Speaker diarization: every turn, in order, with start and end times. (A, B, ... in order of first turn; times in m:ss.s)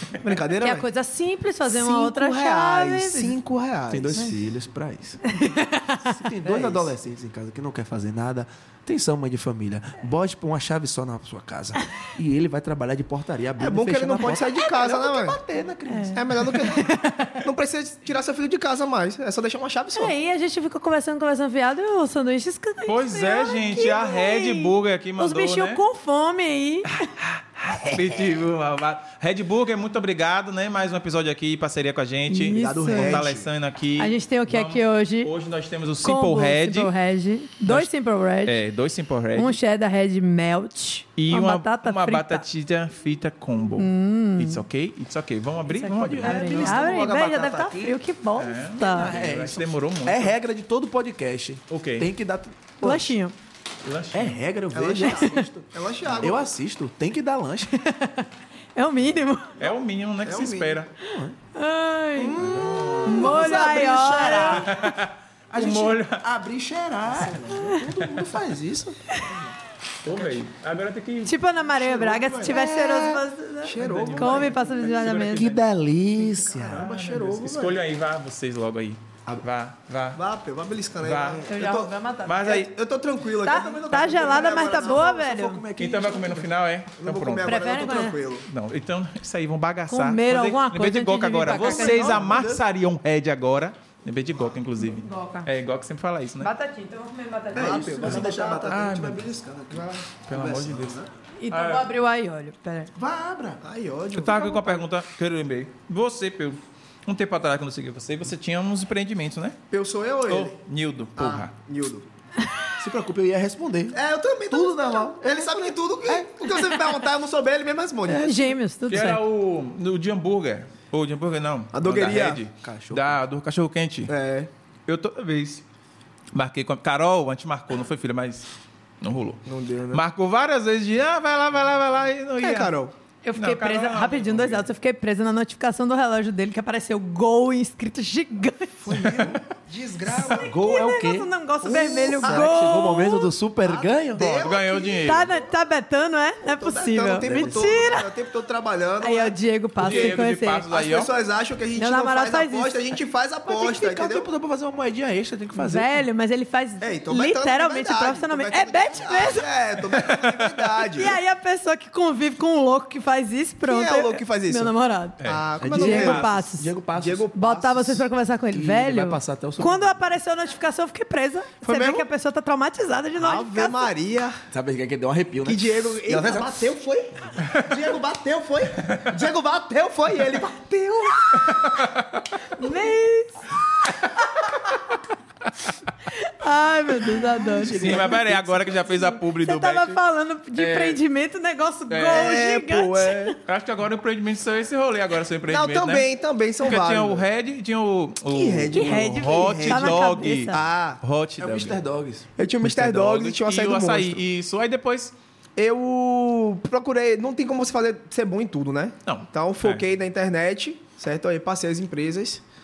0:00.2-0:00.9 A
0:00.6-0:03.3 B
0:01.6-0:04.4 A
0:03.9-0:05.4 C
0:05.3-0:06.2 B
0:06.0-0:16.5 C
0:06.4-0:06.9 A
0:13.6-0:15.4 A
0:15.9-0:17.4 B
0:16.1-0:20.1 A
0:19.9-0:27.0 B
0:22.8-0:25.8 D
0:27.1-0:36.9 D
0:32.3-0:33.2 B
0:32.5-0:33.5 A
0:34.0-0:35.3 B
0:36.0-0:38.6 B
0:37.6-0:37.9 D
0:38.4-0:39.6 D
0:39.3-0:42.4 B
0:41.2-0:46.9 D
0:43.8-0:44.6 B
0:45.7-0:48.0 C
0:45.8-0:49.1 B
0:48.4-0:50.3 D
0:48.8-0:53.1 C
0:51.7-0:52.1 D
0:52.8-0:53.3 B
0:53.8-0:54.4 D
0:54.1-0:55.6 C
0:54.7-0:56.5 A
0:55.0-0:55.4 B
0:56.2-0:57.8 C
0:57.7-0:59.6 B
0:59.6-1:00.9 D
1:00.2-1:00.8 A
1:01.0-1:01.4 C
1:01.5-1:02.4 B
1:02.1-1:04.8 C
1:02.4-1:03.4 D
1:03.0-1:04.7 B
1:03.1-1:04.6 A
1:04.3-1:06.2 D
1:05.5-1:09.0 C
1:07.1-1:07.7 A
1:09.1-1:09.6 A
1:10.0-1:11.3 D
1:10.1-1:10.4 A
1:11.2-1:15.5 B
1:11.6-1:12.8 A
1:12.4-1:13.3 C
1:13.6-1:15.2 A
1:13.7-1:14.6 D
1:14.8-1:16.9 C
1:15.1-1:15.6 D
1:16.2-1:17.8 A
1:16.6-1:20.2 D
1:20.1-1:25.1 A
1:21.0-1:22.7 D
1:21.5-1:22.4 B
1:23.4-1:25.6 B
1:24.1-1:26.5 C
1:25.8-1:27.6 D
1:27.0-1:28.5 A
1:27.4-1:28.2 B
1:28.4-1:36.5 D
1:29.9-1:32.2 B
1:31.5-1:32.6 C
1:34.8-1:35.5 B
1:36.4-1:38.3 B
1:37.5-1:41.1 C
1:37.5-1:38.9 A
1:38.7-1:39.2 D
1:39.7-1:40.0 A
1:40.3-1:41.0 D
1:41.4-1:42.9 B
1:41.5-1:41.9 D
1:42.9-1:43.6 C
1:43.6-1:44.8 A
1:44.1-1:49.6 D
1:49.7-1:50.6 A
1:50.3-1:51.5 D
1:51.2-1:52.1 A
1:52.8-1:56.9 C
1:53.9-1:58.4 A
1:58.1-1:58.5 C
1:58.1-1:59.2 B
1:58.9-2:04.1 D
2:01.7-2:02.4 A
2:02.6-2:03.2 C
2:04.1-2:04.5 A
2:04.9-2:05.6 D
2:06.3-2:08.5 D
2:09.0-2:12.7 D
2:09.4-2:10.0 A
2:12.4-2:12.9 A
2:13.2-2:19.3 B
2:13.3-2:14.6 D
2:18.8-2:20.5 A
2:18.9-2:19.3 D
2:20.1-2:23.3 B
2:20.3-2:24.5 C
2:21.6-2:22.5 A
2:23.6-2:25.4 A
2:24.3-2:25.3 D
2:25.0-2:28.1 B
2:26.4-2:30.2 A
2:27.2-2:27.8 C
2:29.0-2:30.6 B
2:29.8-2:31.1 D
2:30.7-2:34.3 A
2:31.8-2:32.8 B
2:33.4-2:36.0 C
2:35.5-2:39.5 B
2:36.8-2:41.2 A
2:40.1-2:40.6 D
2:40.9-2:46.7 B
2:43.6-2:44.7 A
2:45.2-2:46.3 D
2:45.2-2:46.3 A
2:45.6-2:50.0 C
2:46.9-2:47.8 A
2:47.3-2:53.9 B
2:51.6-2:52.1 A
2:53.2-2:54.4 A
2:54.5-2:56.6 C
2:55.4-3:01.9 A
3:01.5-3:02.2 D
3:02.5-3:04.2 B
3:06.1-3:08.1 B
3:07.2-3:08.8 C
3:07.7-3:10.0 D
3:09.3-3:13.4 B
3:10.5-3:11.0 D
3:11.9-3:12.4 D
3:12.1-3:13.4 A
3:13.4-3:16.1 D
3:15.5-3:17.3 A
3:16.6-3:21.8 D
3:18.3-3:21.0 A
3:18.7-3:20.6 B
3:21.4-3:22.3 C
3:22.4-3:24.2 A
3:22.6-3:25.1 D
3:25.6-3:32.4 A
3:29.0-3:29.8 D